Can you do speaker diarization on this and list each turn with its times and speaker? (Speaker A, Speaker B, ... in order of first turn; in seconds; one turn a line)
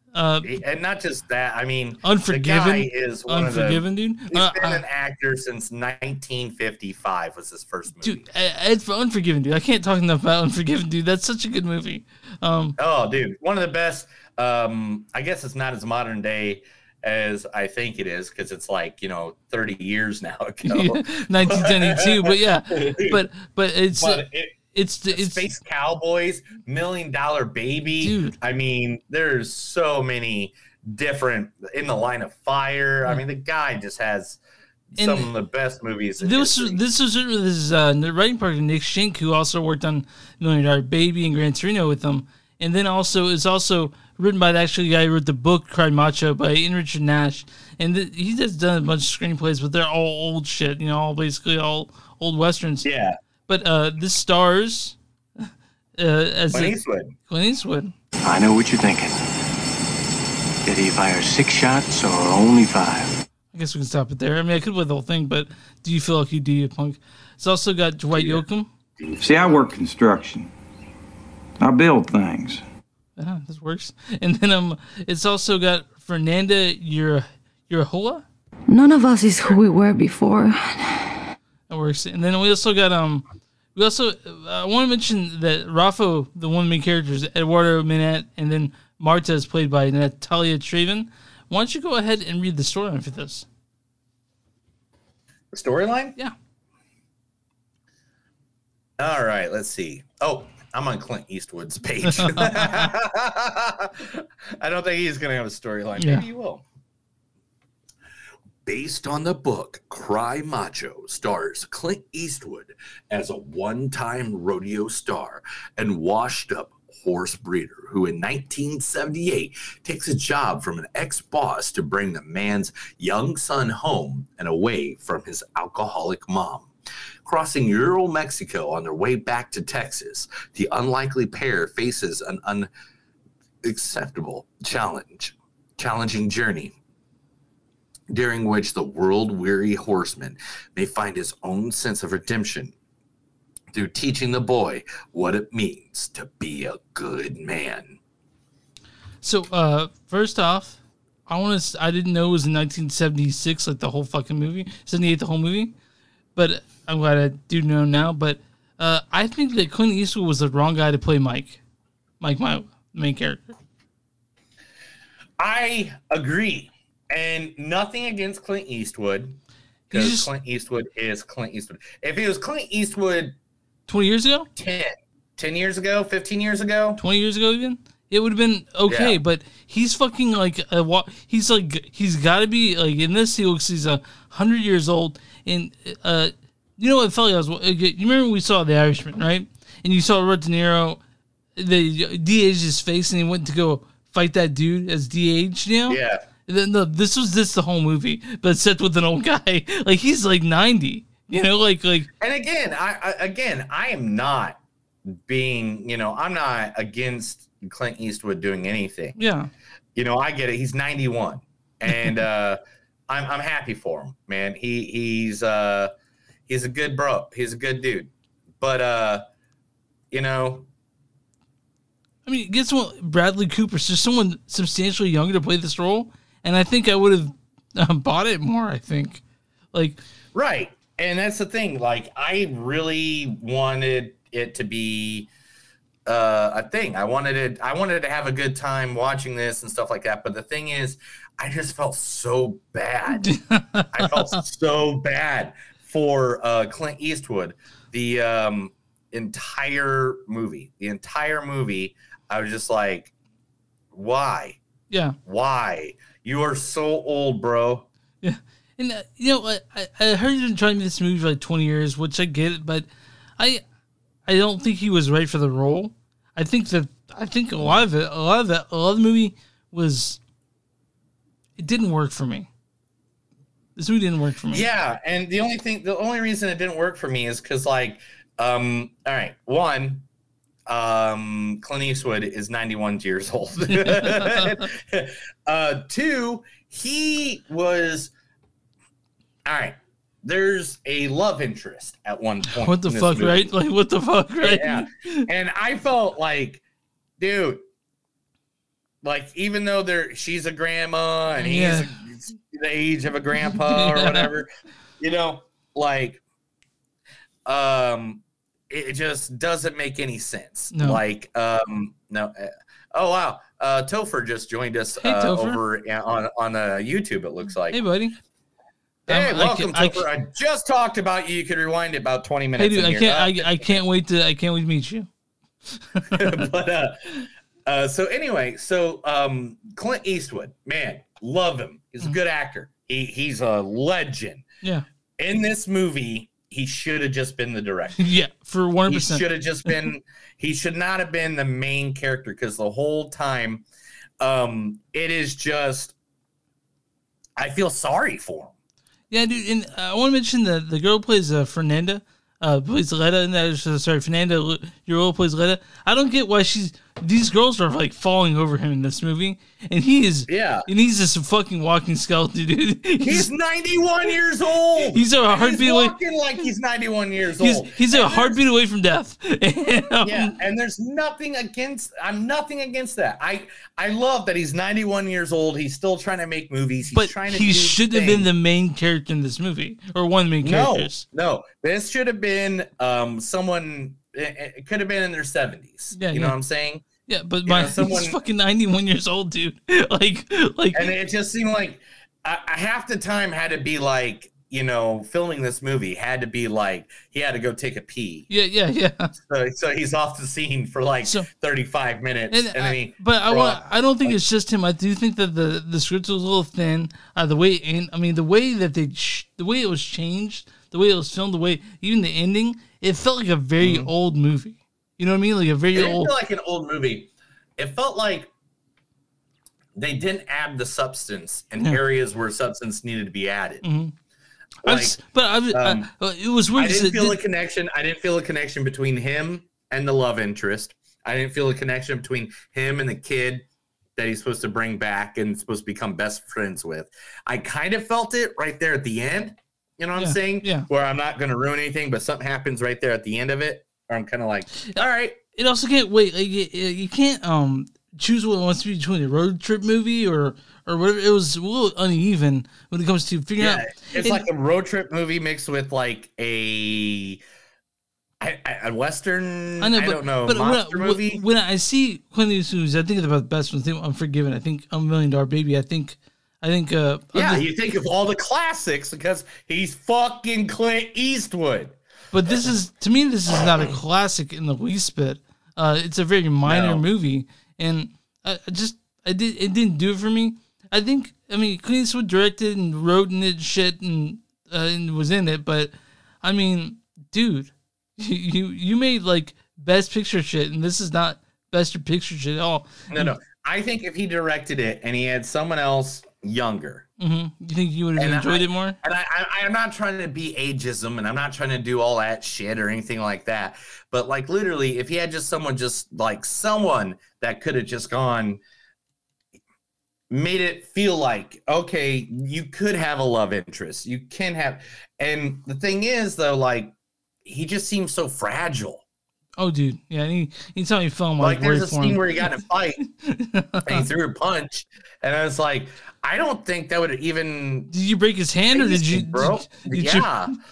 Speaker A: 0.1-0.5
Speaker B: 0.4-8.2
Speaker A: 2.0-4.8
Speaker A: 8.0-12.8
Speaker B: 12.8-23.2
Speaker A: 20.6-25.5
Speaker B: 23.9-24.6
Speaker B: 25.1-34.4
Speaker A: 28.0-28.4
Speaker B: 34.9-36.8
Speaker A: 35.0-35.3
Speaker A: 36.2-52.9
Speaker B: 52.8-53.2
Speaker A: 53.5-55.0
Speaker A: 56.0-56.8
Speaker B: 56.5-57.1
Speaker A: 57.3-57.9
Speaker C: 58.2-59.2
Speaker C: 60.6-63.2
Speaker A: 63.5-68.7
Speaker B: 68.1-68.4
Speaker B: 69.0-69.6
Speaker D: 69.2-70.5
Speaker D: 71.6-72.6
Speaker A: 73.2-78.2
Speaker E: 78.7-81.2
Speaker A: 81.7-93.5
Speaker B: 95.5-96.2
Speaker B: 99.0-106.7
Speaker A: 102.1-102.9
Speaker A: 106.0-106.2
Speaker B: 108.7-126.7
Speaker B: 127.2-132.7
Speaker B: 133.6-136.8
Speaker B: 138.1-142.7
Speaker B: 143.7-148.0
Speaker A: 149.2-155.7
Speaker A: 156.4-161.6
Speaker A: 162.2-163.5
Speaker B: 165.4-169.4
Speaker A: 169.9-170.3
Speaker B: 169.9-173.3
Speaker A: 173.9-174.5
Speaker B: 174.6-177.0
Speaker A: 177.0-191.0
Speaker B: 178.9-179.2
Speaker A: 191.6-202.1
Speaker B: 195.9-196.2
Speaker B: 202.2-204.6
Speaker B: 205.3-209.2
Speaker A: 209.2-209.5
Speaker B: 210.0-215.9
Speaker B: 216.5-218.1
Speaker B: 218.6-219.2
Speaker B: 220.1-220.7
Speaker A: 222.3-229.2
Speaker A: 229.7-230.0
Speaker B: 230.3-235.3
Speaker B: 236.1-243.3
Speaker A: 243.2-244.1
Speaker B: 243.9-253.1
Speaker B: 253.9-254.6
Speaker A: 254.9-255.2
Speaker B: 255.2-257.9
Speaker A: 258.2-262.9
Speaker A: 264.3-270.2
Speaker A: 271.6-272.5
Speaker A: 273.8-274.7
Speaker B: 274.5-280.1
Speaker B: 280.7-288.1
Speaker A: 283.7-284.6
Speaker B: 289.5-293.5
Speaker A: 292.5-295.3
Speaker B: 294.4-296.6
Speaker B: 297.2-297.6
Speaker B: 299.0-304.5
Speaker A: 301.4-301.9
Speaker A: 303.5-304.3
Speaker B: 305.0-306.2
Speaker B: 307.5-317.8
Speaker A: 310.7-311.0
Speaker A: 315.0-315.6
Speaker A: 317.7-318.2
Speaker A: 319.1-320.1
Speaker B: 319.1-323.8
Speaker A: 322.6-325.1
Speaker A: 325.9-326.4
Speaker B: 326.1-327.1
Speaker B: 327.7-334.4
Speaker B: 335.2-338.0
Speaker A: 338.0-339.8
Speaker B: 338.9-343.6
Speaker B: 344.2-345.9
Speaker B: 347.4-348.5
Speaker A: 349.1-363.3
Speaker B: 360.3-360.7
Speaker B: 363.0-368.4
Speaker A: 364.9-366.0
Speaker A: 367.4-370.4
Speaker B: 370.0-378.3
Speaker A: 376.9-381.1
Speaker B: 380.4-386.9
Speaker A: 385.9-386.4
Speaker A: 387.1-390.9
Speaker B: 387.4-388.2
Speaker B: 390.7-398.3
Speaker A: 398.3-399.1
Speaker B: 399.2-404.2
Speaker A: 402.3-416.1
Speaker B: 413.6-413.9
Speaker B: 415.8-418.3
Speaker B: 419.8-423.6
Speaker A: 423.6-423.9
Speaker B: 424.6-425.0
Speaker A: 424.6-427.2
Speaker B: 425.5-425.9
Speaker B: 426.6-433.4
Speaker B: 434.0-445.2
Speaker A: 440.0-440.7
Speaker A: 445.4-454.2
Speaker B: 453.4-457.2
Speaker B: 458.2-461.2
Speaker A: 459.6-467.4
Speaker B: 467.1-471.8
Speaker A: 472.1-493.1
Speaker B: 476.5-476.8
Speaker B: 492.9-496.9
Speaker A: 497.0-498.8
Speaker B: 498.0-508.4
Speaker B: 510.1-516.7
Speaker B: 517.2-518.8
Speaker A: 519.4-523.9
Speaker B: 521.2-522.8
Speaker B: 523.7-527.7
Speaker A: 527.7-530.1
Speaker B: 528.5-530.3